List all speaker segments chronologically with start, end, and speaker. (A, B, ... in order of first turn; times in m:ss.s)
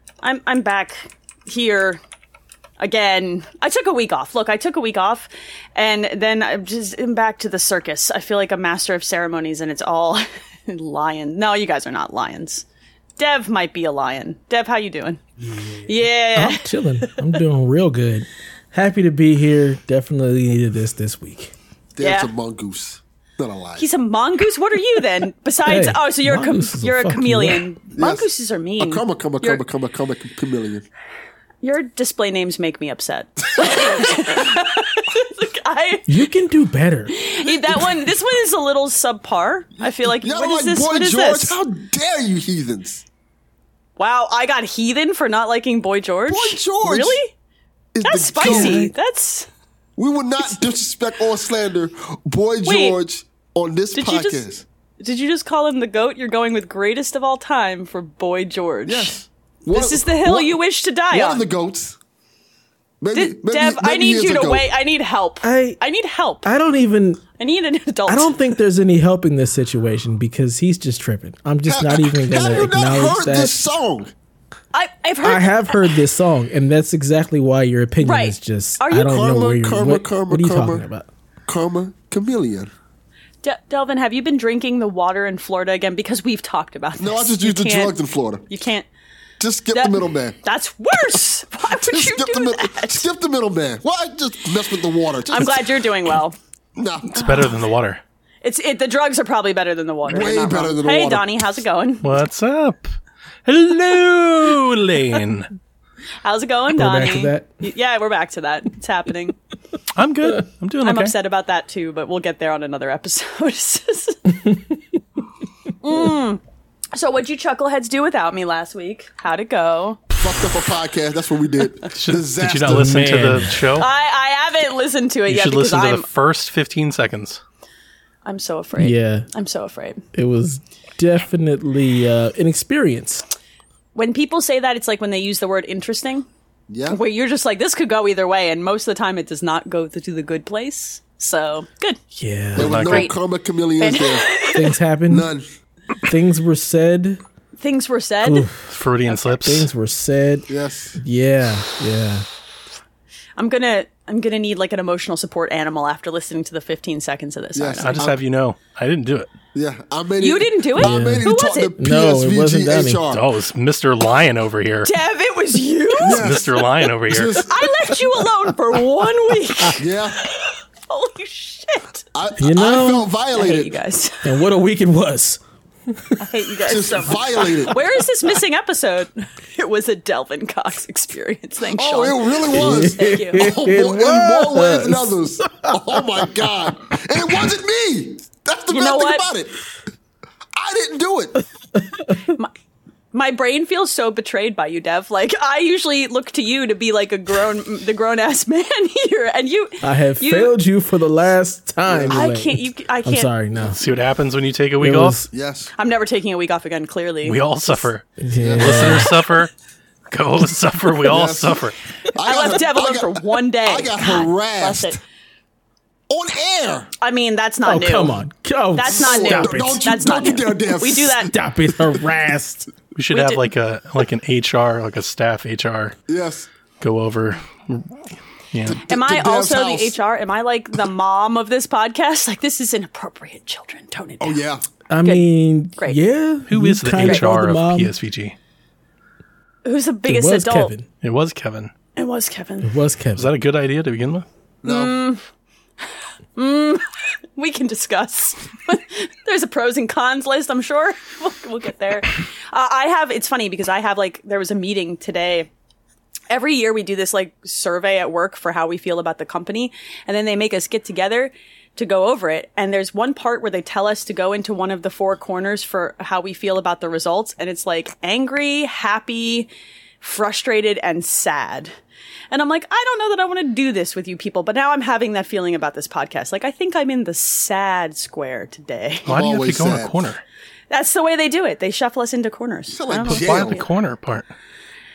0:00.2-0:02.0 A
0:02.8-0:12.6 A
0:13.2-0:17.3 A
0:16.3-0:21.5 B
0:21.9-0:23.9 C
0:22.0-0:22.3 A
0:23.8-0:29.6 A
0:25.6-0:27.6 B
0:28.0-0:28.2 C
0:28.8-0:30.9 C
0:31.6-0:36.1 A
0:33.6-0:34.2 C
0:36.1-0:37.1 B
0:37.1-0:41.6 A
0:39.8-0:43.0 C
0:44.0-0:47.3 A
0:46.3-0:47.2 C
0:47.9-0:48.8 C
0:48.0-0:49.5 A
0:48.4-0:48.9 B
0:50.0-0:54.6 C
0:52.6-0:53.0 A
0:53.9-0:54.4 A
0:55.0-0:59.2 A
0:58.8-1:00.6 C
0:59.7-1:01.4 A
1:01.1-1:02.0 C
1:03.0-1:04.6 C
1:03.1-1:06.5 A
1:05.4-1:05.8 B
1:06.4-1:07.2 B
1:07.4-1:08.3 A
1:08.1-1:13.6 B
1:11.7-1:14.1 C
1:14.7-1:15.8 A
1:15.2-1:21.1 B
1:18.0-1:19.2 A
1:18.9-1:20.8 C
1:21.4-1:22.7 C
1:23.4-1:28.0 A
1:27.0-1:28.4 C
1:28.5-1:28.9 A
1:29.4-1:30.4 C
1:29.7-1:33.0 A
1:31.7-1:35.7 C
1:35.3-1:36.4 A
1:36.8-1:37.4 C
1:37.1-1:37.6 A
1:37.1-1:38.0 D
1:38.4-1:42.1 A
1:40.1-1:41.3 C
1:42.0-1:42.9 D
1:43.4-1:45.5 D
1:46.2-1:49.4 A
1:46.7-1:47.5 B
1:49.9-1:51.1 D
1:50.8-1:54.4 A
1:55.8-1:56.4 A
1:56.9-2:00.0 A
2:00.2-2:03.1 C
2:01.9-2:03.9 D
2:02.6-2:03.7 B
2:03.8-2:06.0 A
2:05.3-2:07.4 D
2:08.2-2:10.0 A
2:08.8-2:09.3 B
2:10.1-2:13.2 B
2:13.9-2:16.2 A
2:16.7-2:17.0 C
2:16.9-2:22.0 A
2:22.2-2:22.8 B
2:22.6-2:24.3 C
2:22.6-2:23.1 D
2:22.7-2:23.2 A
2:23.8-2:24.7 A
2:24.5-2:25.3 B
2:25.1-2:25.4 C
2:26.0-2:27.2 B
2:27.6-2:28.5 A
2:28.2-2:28.7 B
2:28.7-2:29.7 D
2:29.3-2:32.2 B
2:30.5-2:31.0 C
2:33.4-2:38.1 A
2:37.5-2:38.2 C
2:37.8-2:39.3 D
2:39.5-2:43.2 C
2:40.2-2:41.7 A
2:40.8-2:43.0 B
2:43.1-2:44.9 D
2:44.8-2:46.6 A
2:46.0-2:47.6 C
2:46.1-2:47.4 D
2:47.4-2:52.0 A
2:49.8-2:50.2 C
2:52.1-2:53.7 C
2:52.4-2:53.4 B
2:53.3-2:54.3 A
2:54.2-2:56.2 B
2:56.2-3:03.5 A
2:56.6-2:57.8 C
3:01.7-3:09.5 C
3:02.5-3:06.5 B
3:07.2-3:07.4 B
3:08.7-3:09.2 A
3:10.6-3:11.4 C
3:11.7-3:12.2 B
3:12.2-3:12.5 A
3:13.1-3:20.5 A
3:19.8-3:23.8 B
3:21.8-3:22.2 C
3:22.1-3:23.3 A
3:23.6-3:25.2 D
3:24.8-3:25.3 B
3:25.3-3:25.7 C
3:25.8-3:27.8 A
3:27.2-3:29.5 D
3:28.2-3:29.1 B
3:28.4-3:29.1 C
3:30.1-3:31.8 D
3:31.0-3:35.0 C
3:32.2-3:35.0 A
3:36.1-3:36.9 C
3:37.0-3:38.2 A
3:37.6-3:39.8 B
3:38.7-3:41.3 A
3:38.9-3:41.3 C
3:41.3-3:42.7 B
3:42.9-3:46.0 D
3:43.1-3:43.4 A
3:46.1-3:46.5 C
3:46.8-3:47.9 D
3:48.5-3:48.8 D
3:48.7-3:50.0 C
3:48.8-3:54.4 A
3:54.2-3:54.6 C
3:54.9-3:57.9 B
3:56.5-3:58.4 D
3:59.6-4:00.7 A
4:00.1-4:00.8 B
4:01.0-4:01.7 D
4:02.0-4:02.7 A
4:02.6-4:03.3 B
4:03.1-4:04.2 D
4:04.6-4:05.0 C
4:04.6-4:05.2 A
4:06.4-4:06.8 A
4:07.4-4:15.5 A
4:16.3-4:29.5 A
4:30.0-4:31.7 A
4:32.3-4:39.1 A
4:39.0-4:40.0 C
4:39.0-4:40.2 D
4:40.7-4:43.6 A
4:42.7-4:43.6 C
4:43.1-4:44.3 D